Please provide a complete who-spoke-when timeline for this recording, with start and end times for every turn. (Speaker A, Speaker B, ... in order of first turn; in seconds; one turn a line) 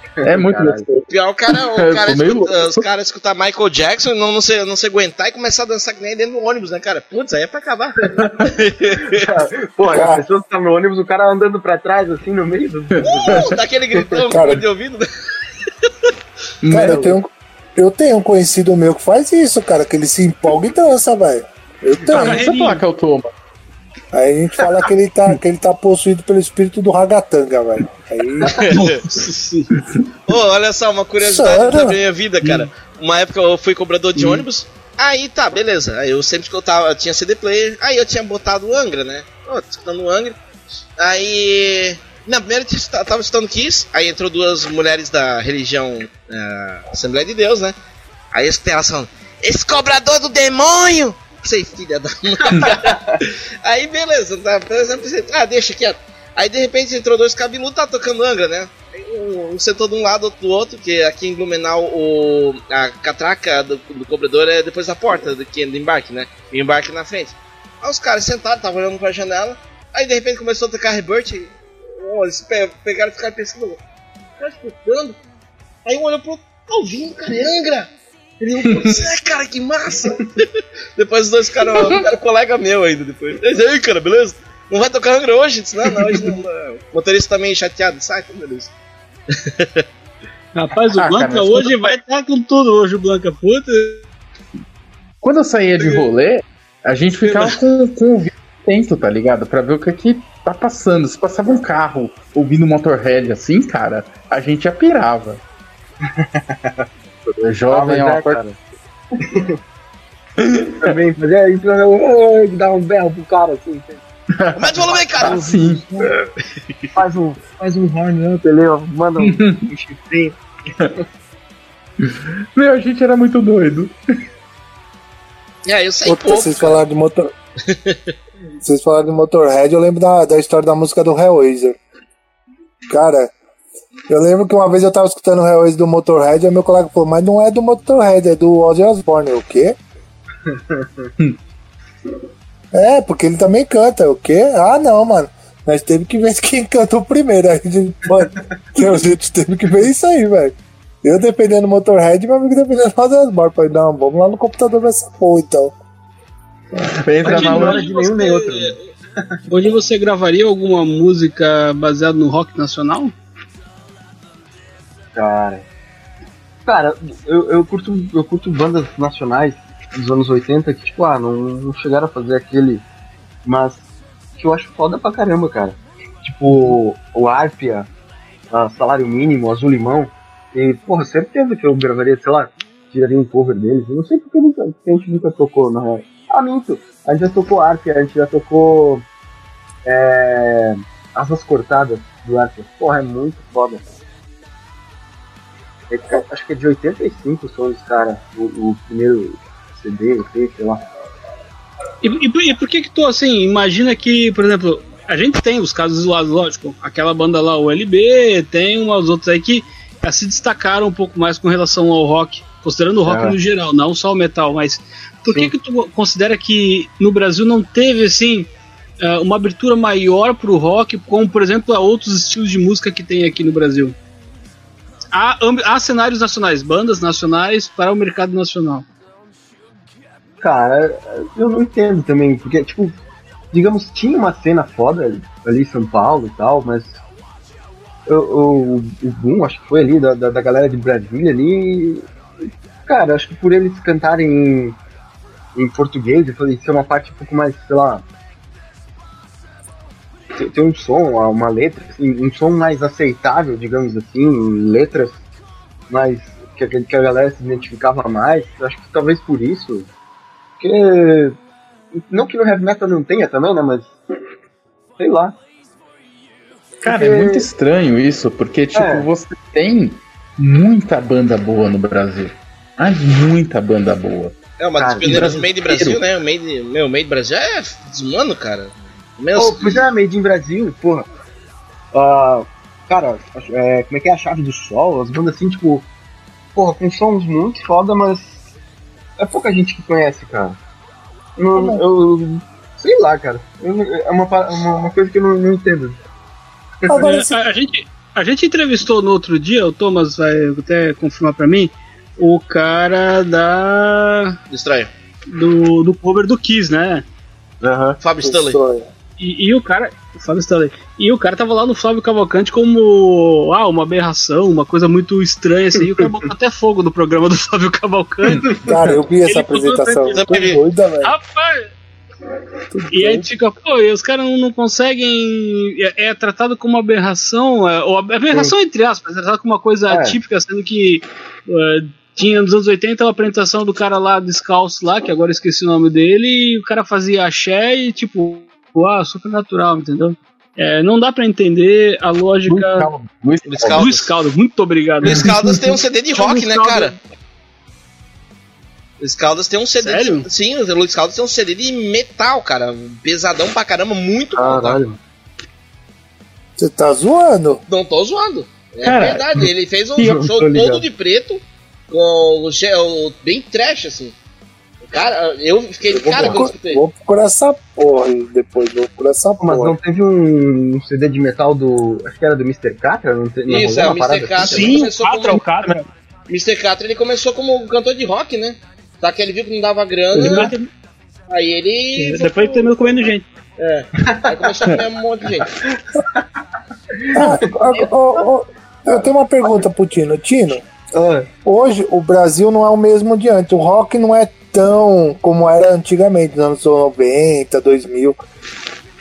Speaker A: 0.2-0.8
Speaker B: 0.2-2.8
Speaker C: 1.1-9.3
Speaker B: 8.1-8.5
Speaker A: 9.0-14.2
Speaker D: 9.9-10.2
Speaker B: 12.9-13.6
Speaker C: 13.0-15.1
Speaker D: 14.3-14.7
Speaker B: 16.6-17.1
Speaker D: 16.7-22.5
Speaker B: 22.1-23.3
Speaker E: 22.1-22.8
Speaker D: 24.1-28.8
Speaker C: 28.5-29.0
Speaker E: 28.7-29.8
Speaker C: 30.3-40.4
Speaker D: 31.2-32.0
Speaker E: 32.4-32.7
Speaker C: 41.0-47.8
Speaker C: 48.3-73.8
Speaker A: 52.4-53.2
Speaker C: 74.4-75.2
Speaker C: 75.8-88.7
Speaker B: 78.6-79.0
Speaker B: 81.7-82.0
Speaker A: 86.1-86.3
Speaker C: 89.3-89.8
Speaker E: 90.5-94.0
Speaker B: 91.0-91.7
Speaker B: 95.2-105.4
Speaker A: 106.2-106.8
Speaker B: 107.4-108.4
Speaker A: 107.7-108.6
Speaker A: 109.2-109.6
Speaker B: 110.4-111.0
Speaker A: 110.8-114.0
Speaker B: 114.3-115.9
Speaker A: 114.5-116.2
Speaker C: 114.6-115.4
Speaker A: 116.9-120.4
Speaker B: 119.2-119.7
Speaker B: 122.0-123.9
Speaker C: 125.6-126.8
Speaker D: 126.0-127.3
Speaker C: 127.7-128.0
Speaker D: 128.6-131.8
Speaker D: 132.9-133.3
Speaker D: 134.1-139.8
Speaker A: 140.5-141.1
Speaker D: 142.7-155.8
Speaker B: 157.0-157.8
Speaker A: 157.2-159.3
Speaker E: 157.2-158.8
Speaker E: 159.5-163.1
Speaker A: 165.1-165.6
Speaker A: 166.7-172.8
Speaker A: 173.4-173.8
Speaker A: 174.4-177.9
Speaker A: 178.5-189.1
Speaker A: 189.8-193.8
Speaker A: 195.9-200.8
Speaker E: 202.0-223.9
Speaker A: 213.0-213.4
Speaker E: 225.1-228.9
Speaker A: 230.4-232.9
Speaker A: 233.5-236.9
Speaker A: 238.1-242.1
Speaker A: 242.8-244.8
Speaker A: 245.5-248.0
Speaker A: 250.3-255.2
Speaker A: 255.9-259.9
Speaker A: 260.6-261.4
Speaker A: 262.0-263.9
Speaker A: 265.0-265.4
Speaker B: 266.8-274.4
Speaker A: 266.9-267.5
Speaker A: 268.7-269.1
Speaker C: 274.6-279.9
Speaker A: 274.8-275.4
Speaker B: 275.0-276.0
Speaker A: 279.3-281.1
Speaker A: 281.9-285.9
Speaker A: 286.5-288.3
Speaker A: 289.2-290.6
Speaker A: 291.4-296.0
Speaker D: 291.5-291.8
Speaker D: 296.9-297.3
Speaker E: 297.0-304.4
Speaker C: 304.5-304.9
Speaker E: 305.3-307.0
Speaker A: 307.6-308.0
Speaker C: 308.0-308.6
Speaker D: 308.2-308.9
Speaker E: 309.2-318.6
Speaker B: 318.3-318.6
Speaker D: 318.6-321.1
Speaker E: 319.2-321.7
Speaker C: 320.1-320.6
Speaker D: 322.7-323.3
Speaker E: 322.9-342.9
Speaker A: 329.9-330.2
Speaker B: 342.5-343.9
Speaker C: 343.4-344.1
Speaker E: 343.7-345.3
Speaker C: 345.0-346.9
Speaker E: 346.1-346.9
Speaker C: 349.0-354.8
Speaker E: 349.8-350.3
Speaker A: 354.3-355.0
Speaker D: 356.6-357.6
Speaker C: 357.7-364.1
Speaker B: 358.8-359.3
Speaker A: 360.0-360.9
Speaker C: 364.9-366.8
Speaker D: 365.9-369.8
Speaker A: 366.1-366.4
Speaker A: 369.4-374.9
Speaker C: 373.5-375.4
Speaker E: 374.4-375.9
Speaker C: 376.3-380.5
Speaker A: 380.1-380.5
Speaker E: 380.1-380.7
Speaker C: 381.3-382.7
Speaker E: 382.0-383.2
Speaker C: 383.6-385.5
Speaker A: 384.2-384.5
Speaker A: 385.8-386.2
Speaker A: 387.0-387.9
Speaker D: 387.1-390.6
Speaker A: 390.9-391.3
Speaker D: 391.4-398.2